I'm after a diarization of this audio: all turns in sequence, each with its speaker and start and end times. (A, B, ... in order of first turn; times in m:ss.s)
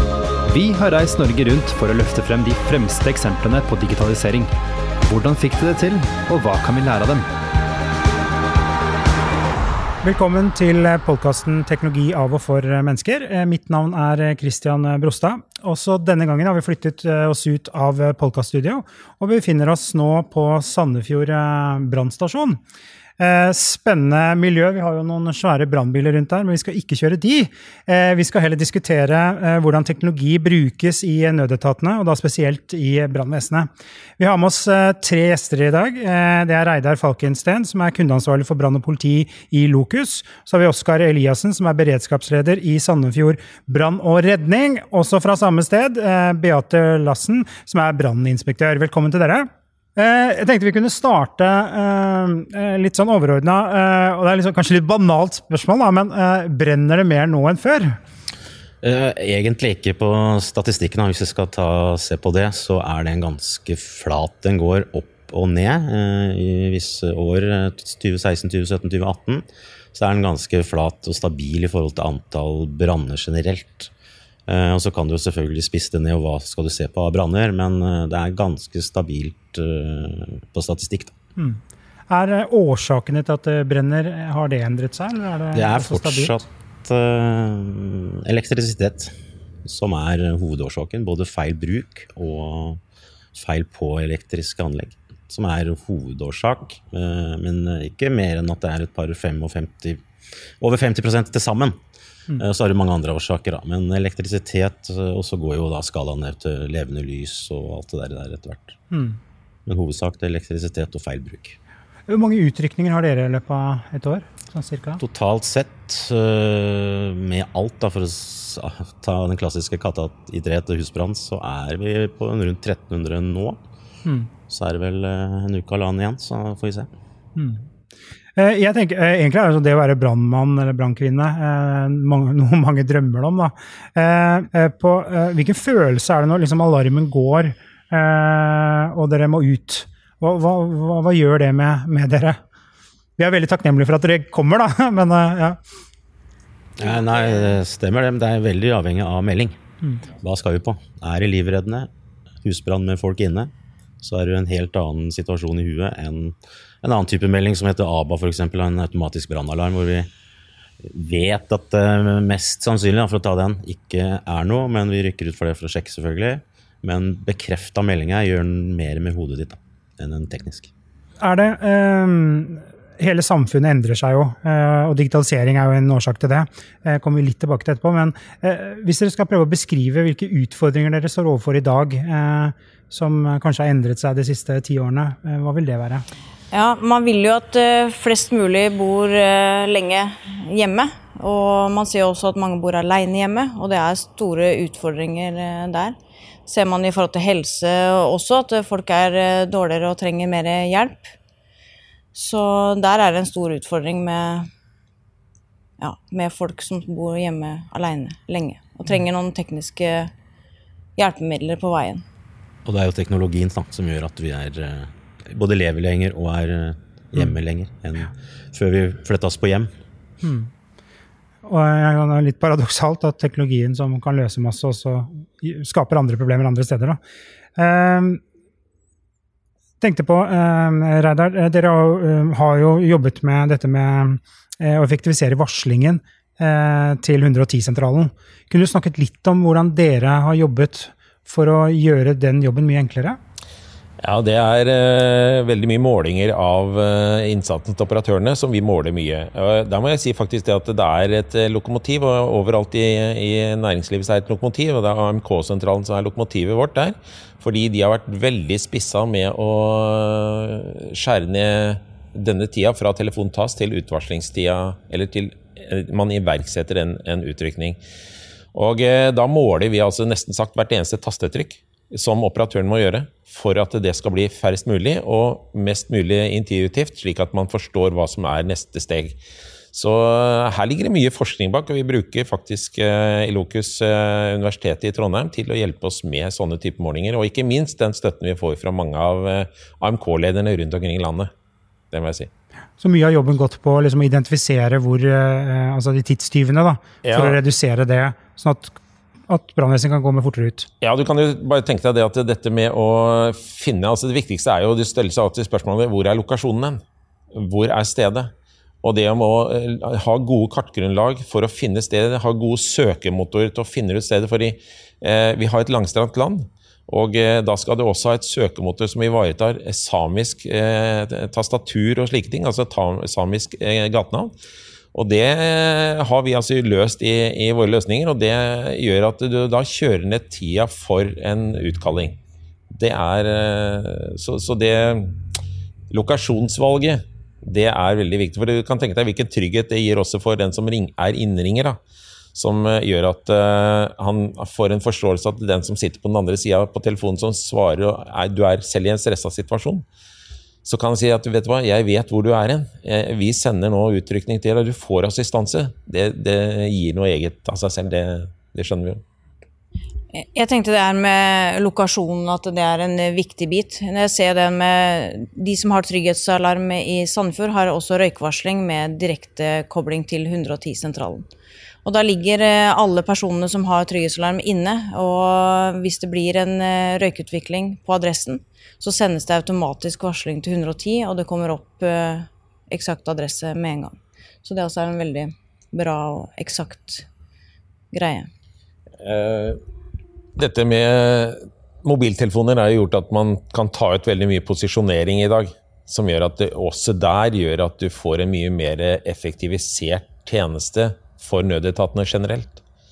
0:00.5-0:04.5 A
0:05.1-0:07.3 A
0:10.0-0:22.6 B
0:23.2-0:58.0 B
0:58.8-1:13.9 C
1:14.5-1:21.1 C
1:21.4-1:26.4 B
1:25.5-1:32.8 C
1:33.4-1:40.0 C
1:40.6-1:41.8 C
1:42.4-1:48.8 C
1:48.9-1:49.2 B
1:49.7-1:51.6 C
1:52.1-1:55.0 B
1:55.0-2:03.6 C
2:04.0-2:04.3 B
2:04.5-2:06.9 C
2:07.4-2:07.7 B
2:08.4-2:22.4 B
2:23.2-2:25.6 B
2:26.8-2:31.9 C
2:32.4-2:40.1 C
2:40.8-2:50.7 C
2:51.2-3:06.0 B
3:06.5-3:21.1 D
3:22.1-3:24.5 D
3:25.8-3:30.1 D
3:31.0-3:32.0 D
3:32.6-3:39.7 C
3:40.2-3:40.5 B
3:41.4-3:47.0 B
3:47.6-3:48.2 B
3:49.8-4:03.2 B
4:04.0-4:27.8 E
4:28.5-4:39.2 E
4:39.7-4:51.3 E
4:51.9-4:52.3 E
4:52.8-5:00.7 B
4:57.0-4:57.4 E
5:00.8-5:06.8 E
5:07.3-5:08.3 E
5:08.8-5:24.3 E
5:24.9-5:32.2 E
5:32.7-5:35.2 E
5:35.9-5:41.8 E
5:42.3-5:49.8 E
5:50.6-5:59.0 E
6:00.1-6:11.3 D
6:11.8-6:27.1 D
6:27.9-6:28.3 D
6:29.0-6:29.6 E
6:30.4-6:42.6 E